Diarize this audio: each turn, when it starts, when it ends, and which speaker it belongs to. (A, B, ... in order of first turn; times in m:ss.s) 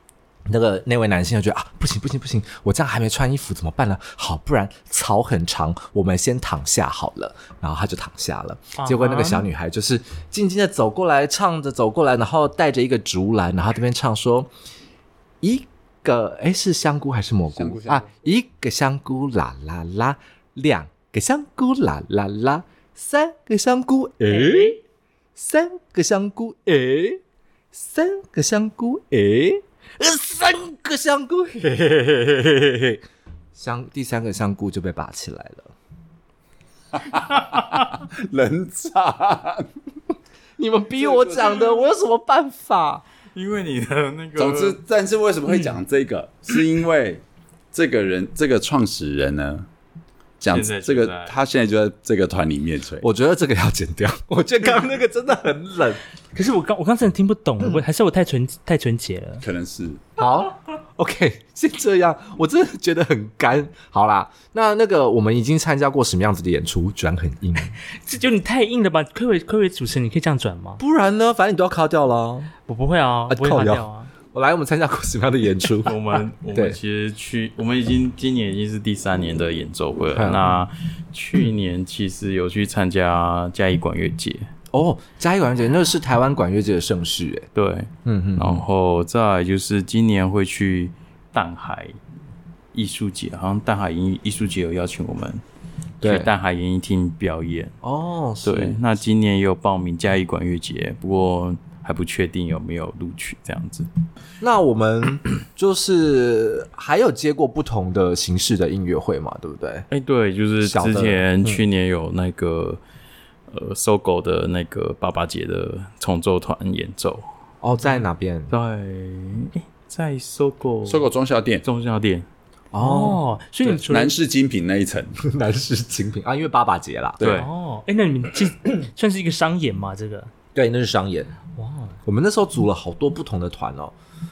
0:00.5-0:14.5 A
0:08.8-0:09.4 B
0:15.4-0:24.8 A
0:17.6-0:18.1 C
0:24.2-0:24.8 B
0:25.4-0:27.2 A
0:27.7-0:33.0 A
0:33.5-0:35.7 A
0:37.0-0:39.7 C
0:40.6-0:43.0 A
0:41.0-0:41.8 C
0:43.3-0:44.8 D
0:44.4-0:47.2 C
0:45.5-0:45.8 B
0:47.7-0:49.6 C
0:50.4-0:53.0 C
0:50.5-0:51.4 D
0:53.0-0:56.0 A
0:56.3-0:59.4 B
0:59.4-1:00.0 C
1:00.2-1:07.7 A
1:08.0-1:10.8 B
1:10.8-1:12.5 A
1:12.7-1:14.1 B
1:13.3-1:16.0 A
1:15.8-1:24.5 D
1:16.5-1:16.8 A
1:20.1-1:20.5 A
1:24.7-1:27.5 A
1:27.5-1:32.0 D
1:28.0-1:28.6 A
1:32.7-1:35.4 D
1:36.0-1:36.3 A
1:36.0-1:37.7 D
1:37.8-1:38.8 A
1:38.4-1:43.9 D
1:44.4-1:49.9 A
1:49.9-1:52.8 D
1:50.6-1:51.6 A
1:53.5-1:57.2 D
1:57.6-1:58.5 A
1:58.5-2:01.1 D
2:00.8-2:01.6 C
2:01.6-2:02.2 D
2:02.7-2:03.2 A
2:02.8-2:04.1 B
2:03.6-2:05.2 C
2:05.2-2:07.3 A
2:07.2-2:07.5 D
2:07.3-2:10.3 B
2:10.5-2:11.3 A
2:11.6-2:12.0 B
2:12.0-2:13.9 A